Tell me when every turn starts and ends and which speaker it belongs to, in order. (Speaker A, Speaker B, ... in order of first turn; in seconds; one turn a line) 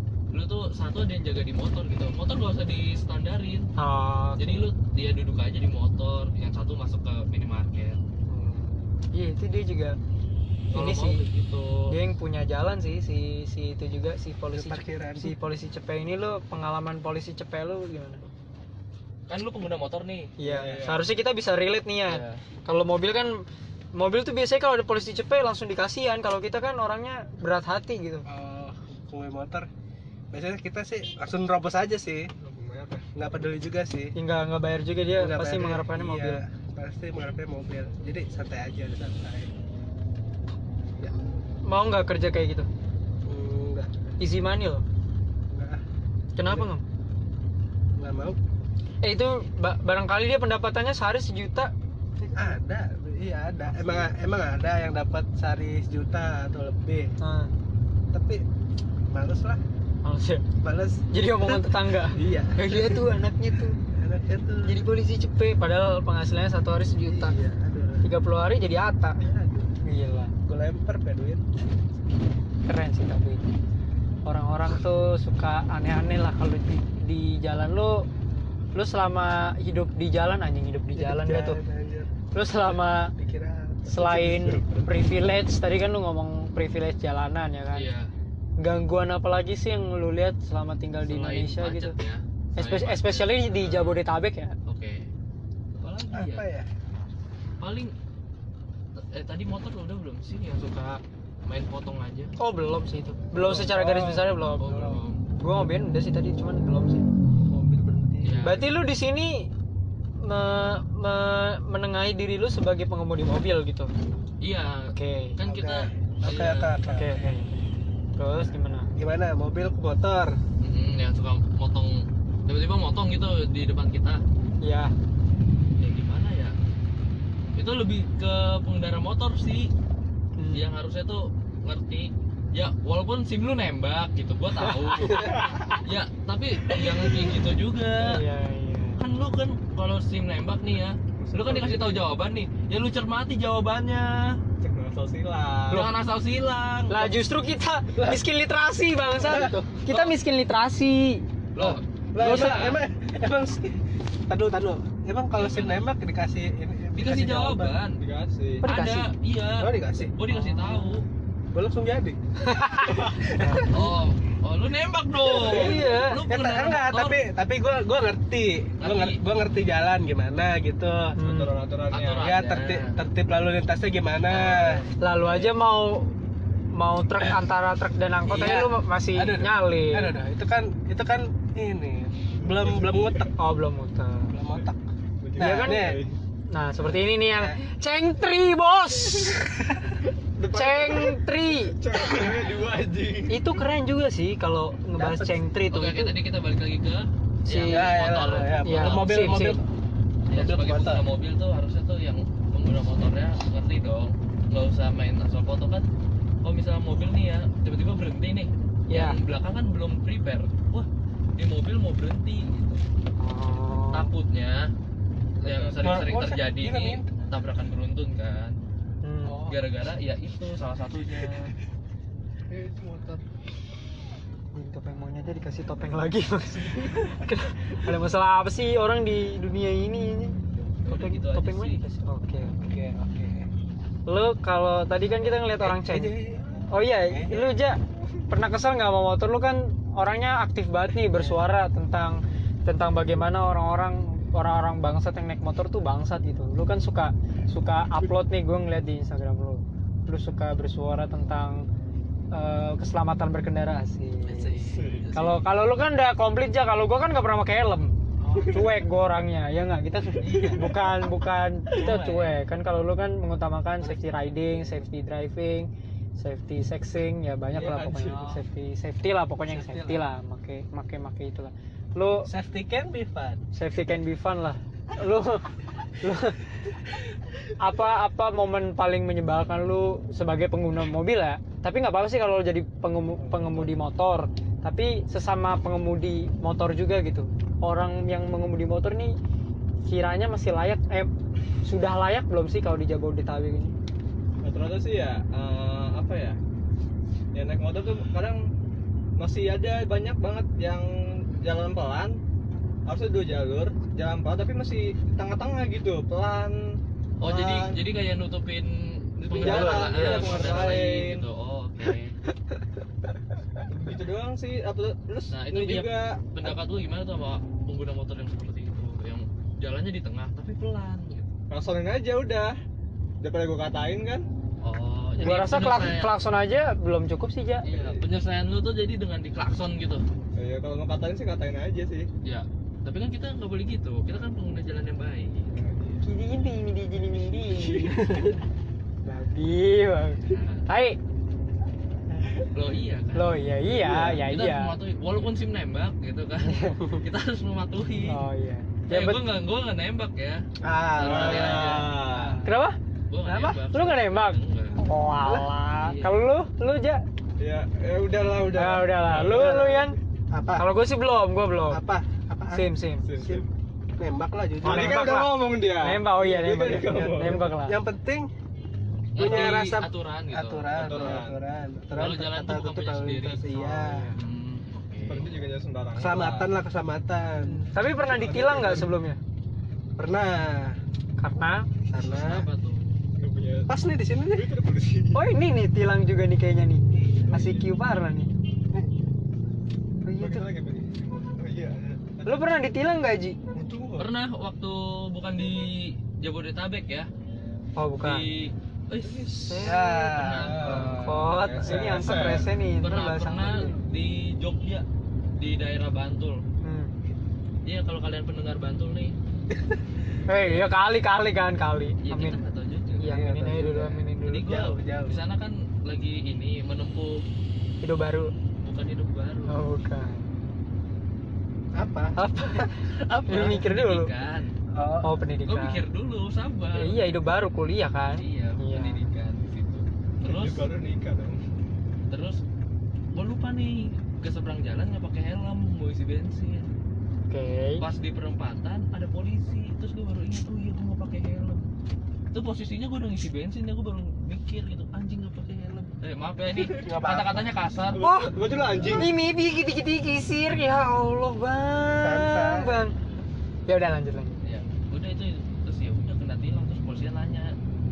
Speaker A: 0.3-3.7
Speaker B: 3.8-4.7
Speaker A: 4.4-8.0
Speaker B: 8.3-10.0
Speaker A: 10.7-11.9
Speaker B: 10.7-11.2
Speaker B: 11.9-18.2
Speaker C: 14.5-15.4
Speaker A: 19.3-20.3
Speaker B: 20.4-28.2
Speaker D: 20.4-21.1
Speaker A: 22.1-22.4
Speaker C: 28.2-29.7
Speaker C: 30.3-32.3
Speaker D: 32.4-33.5
Speaker C: 33.1-34.1
Speaker B: 34.1-36.4
Speaker C: 35.1-39.5
Speaker B: 41.6-42.7
Speaker C: 43.2-44.0
Speaker B: 44.2-44.8
Speaker C: 45.5-45.8
Speaker B: 46.4-46.8
Speaker C: 46.4-46.7
Speaker C: 48.0-48.4
Speaker B: 49.0-51.7
Speaker C: 52.3-57.1
Speaker D: 53.7-54.0
Speaker B: 57.2-57.5
Speaker C: 58.1-58.4
Speaker C: 59.1-59.6
Speaker B: 60.0-60.5
Speaker C: 60.6-63.1
Speaker B: 61.1-63.8
Speaker C: 63.9-64.8
Speaker B: 64.6-67.3
Speaker C: 66.9-68.1
Speaker B: 68.0-69.2
Speaker C: 69.2-69.7
Speaker B: 69.8-70.3
Speaker C: 70.5-71.4
Speaker B: 72.7-73.4
Speaker B: 74.2-78.0
Speaker B: 78.7-81.6
Speaker C: 80.9-82.1
Speaker B: 82.3-83.1
Speaker C: 83.1-84.5
Speaker B: 83.9-87.9
Speaker D: 84.2-84.8
Speaker A: 87.7-88.1
Speaker B: 88.6-91.9
Speaker A: 91.0-94.0
Speaker B: 92.5-94.5
Speaker A: 94.7-95.1
Speaker A: 95.8-96.5
Speaker C: 96.1-96.7
Speaker A: 97.6-97.9
Speaker A: 99.0-102.3
Speaker B: 102.4-104.7
Speaker C: 103.4-105.0
Speaker A: 104.6-105.2
Speaker B: 105.4-107.1
Speaker D: 107.5-108.5
Speaker A: 108.2-108.7
Speaker B: 108.4-109.5
Speaker B: 110.2-113.9
Speaker A: 114.4-116.8
Speaker B: 114.9-115.4
Speaker C: 115.4-117.4
Speaker B: 116.9-117.6
Speaker B: 118.2-118.9
Speaker C: 119.0-120.3
Speaker A: 120.6-124.2
Speaker B: 124.6-124.9
Speaker A: 125.8-126.5
Speaker A: 127.5-129.7
Speaker B: 130.4-130.7
Speaker A: 130.5-138.2
Speaker B: 134.6-135.8
Speaker C: 135.1-135.4
Speaker B: 136.7-137.2
Speaker B: 138.0-139.0
Speaker A: 139.0-144.4
Speaker D: 141.2-142.0
Speaker D: 144.6-145.9
Speaker A: 145.7-147.1
Speaker B: 146.9-151.2
Speaker C: 147.9-148.2
Speaker C: 149.2-149.7
Speaker A: 149.9-150.1
Speaker A: 151.5-152.8
Speaker C: 151.6-157.8
Speaker B: 152.2-152.7
Speaker A: 155.3-155.9
Speaker A: 156.9-158.0
Speaker D: 158.0-158.6
Speaker B: 158.6-159.1
Speaker A: 158.6-161.1
Speaker C: 159.6-160.1
Speaker B: 160.3-161.0
Speaker C: 161.5-163.9
Speaker B: 162.5-163.8
Speaker A: 163.7-167.2
Speaker C: 165.3-171.2
Speaker B: 165.4-166.2
Speaker A: 168.8-169.2
Speaker B: 171.2-171.5
Speaker D: 171.2-172.3
Speaker A: 171.9-172.9
Speaker C: 172.2-174.8
Speaker A: 174.3-174.9
Speaker B: 175.0-176.1
Speaker B: 176.7-180.1
Speaker C: 178.2-183.3
Speaker D: 182.4-183.3
Speaker B: 183.4-184.3
Speaker C: 184.3-184.8
Speaker D: 185.2-186.2
Speaker C: 185.3-186.0
Speaker B: 185.4-185.9
Speaker B: 186.5-189.5
Speaker C: 186.8-187.6
Speaker C: 189.5-189.9
Speaker D: 190.3-193.5
Speaker B: 190.5-191.8
Speaker B: 193.3-196.1
Speaker C: 195.0-195.3
Speaker A: 195.7-199.4
Speaker B: 197.4-197.9
Speaker C: 197.7-199.6
Speaker B: 198.6-199.6
Speaker A: 200.3-205.8
Speaker C: 200.3-201.0
Speaker A: 206.4-212.8
Speaker B: 208.9-209.2
Speaker B: 213.2-214.1
Speaker A: 213.9-214.7
Speaker D: 215.4-216.1
Speaker A: 215.4-218.6
Speaker C: 215.8-217.1
Speaker B: 219.0-219.4
Speaker C: 219.3-219.6
Speaker A: 219.4-221.5
Speaker D: 222.5-223.2
Speaker B: 224.5-232.6
Speaker A: 230.8-231.8
Speaker C: 232.5-233.5
Speaker B: 234.1-236.1
Speaker C: 235.0-237.5
Speaker B: 236.7-237.8
Speaker B: 238.3-251.7
Speaker C: 241.1-241.4
Speaker B: 252.3-254.6
Speaker A: 254.3-255.4
Speaker C: 254.3-254.8
Speaker D: 254.7-255.1
Speaker B: 255.1-272.3
Speaker D: 258.3-258.7
Speaker A: 260.2-260.7
Speaker D: 260.2-260.6
Speaker C: 261.7-262.3
Speaker D: 267.5-268.4
Speaker C: 269.5-270.0
Speaker C: 272.2-273.4
Speaker B: 273.5-275.5
Speaker B: 276.0-276.4
Speaker B: 277.6-289.1
Speaker D: 283.2-283.7
Speaker B: 289.9-291.1
Speaker B: 291.6-293.7
Speaker D: 294.4-296.4
Speaker D: 297.3-298.4
Speaker D: 299.2-302.1
Speaker D: 302.9-307.8
Speaker A: 307.2-312.1
Speaker D: 309.2-311.2
Speaker C: 309.3-310.5
Speaker D: 313.7-316.5
Speaker A: 315.3-321.3
Speaker D: 321.5-322.5
Speaker D: 323.2-324.3
Speaker A: 324.6-326.1
Speaker B: 325.2-327.6
Speaker A: 327.6-330.0
Speaker D: 327.7-328.0
Speaker D: 330.4-332.1
Speaker A: 332.2-335.5
Speaker D: 335.5-336.0
Speaker B: 336.0-338.1
Speaker D: 337.5-337.8
Speaker C: 337.7-338.4
Speaker B: 339.0-341.0
Speaker A: 340.3-340.6
Speaker A: 342.5-343.3
Speaker B: 343.1-344.7
Speaker C: 343.7-344.2
Speaker A: 344.3-348.2
Speaker B: 346.4-346.9
Speaker B: 348.1-349.2
Speaker A: 348.9-350.4
Speaker C: 350.6-352.4
Speaker A: 350.9-351.9
Speaker D: 351.0-352.4
Speaker B: 352.4-352.8
Speaker A: 353.1-354.8
Speaker B: 353.3-357.0
Speaker C: 355.2-355.5
Speaker A: 355.8-356.2
Speaker D: 357.4-359.6
Speaker B: 358.5-359.9
Speaker C: 359.1-360.7
Speaker B: 360.6-361.8
Speaker C: 361.7-363.4
Speaker B: 362.5-363.0
Speaker D: 363.0-363.5
Speaker C: 364.0-365.1
Speaker D: 364.6-367.4
Speaker B: 364.6-367.8
Speaker C: 366.6-368.3
Speaker A: 369.1-371.2
Speaker C: 369.2-374.1
Speaker D: 369.2-369.5
Speaker D: 370.8-371.4
Speaker A: 371.9-373.5
Speaker B: 373.7-374.2
Speaker A: 374.1-375.3
Speaker D: 375.1-376.5
Speaker C: 375.9-377.7
Speaker B: 377.4-379.2
Speaker D: 378.0-378.9
Speaker C: 378.4-378.8
Speaker C: 380.0-380.8
Speaker B: 381.2-381.6
Speaker C: 381.9-382.5
Speaker A: 381.9-382.9
Speaker D: 383.2-385.2
Speaker C: 383.7-384.5
Speaker B: 385.1-388.3
Speaker C: 386.9-387.3
Speaker D: 387.3-387.7
Speaker B: 390.0-390.5
Speaker D: 390.2-392.4
Speaker B: 392.2-393.4
Speaker D: 393.5-394.1
Speaker A: 394.0-397.1
Speaker B: 397.8-398.2
Speaker A: 398.0-400.9
Speaker D: 399.0-399.3
Speaker B: 399.3-400.1
Speaker C: 399.6-401.0
Speaker D: 400.2-402.5
Speaker B: 400.7-403.8
Speaker A: 402.8-404.8
Speaker A: 405.4-406.4
Speaker B: 406.6-406.9
Speaker A: 407.6-409.1
Speaker B: 410.3-412.4
Speaker A: 410.4-410.7
Speaker A: 412.0-413.1
Speaker B: 413.0-414.6
Speaker C: 413.0-415.2
Speaker A: 414.2-417.2
Speaker B: 417.8-418.3
Speaker A: 418.6-419.6
Speaker B: 419.5-420.2
Speaker C: 421.7-422.6
Speaker B: 422.1-424.1
Speaker A: 422.9-424.5
Speaker C: 424.7-425.1
Speaker B: 425.0-425.8
Speaker A: 425.4-427.0
Speaker B: 426.8-429.1
Speaker A: 428.2-430.7
Speaker D: 430.2-431.4
Speaker A: 432.1-432.4
Speaker A: 433.1-436.7
Speaker B: 437.3-437.8
Speaker A: 437.8-441.6
Speaker A: 442.3-448.0
Speaker C: 446.7-447.5
Speaker D: 447.9-449.1
Speaker B: 448.0-452.9
Speaker C: 452.0-452.9
Speaker B: 453.7-454.3
Speaker A: 454.4-457.5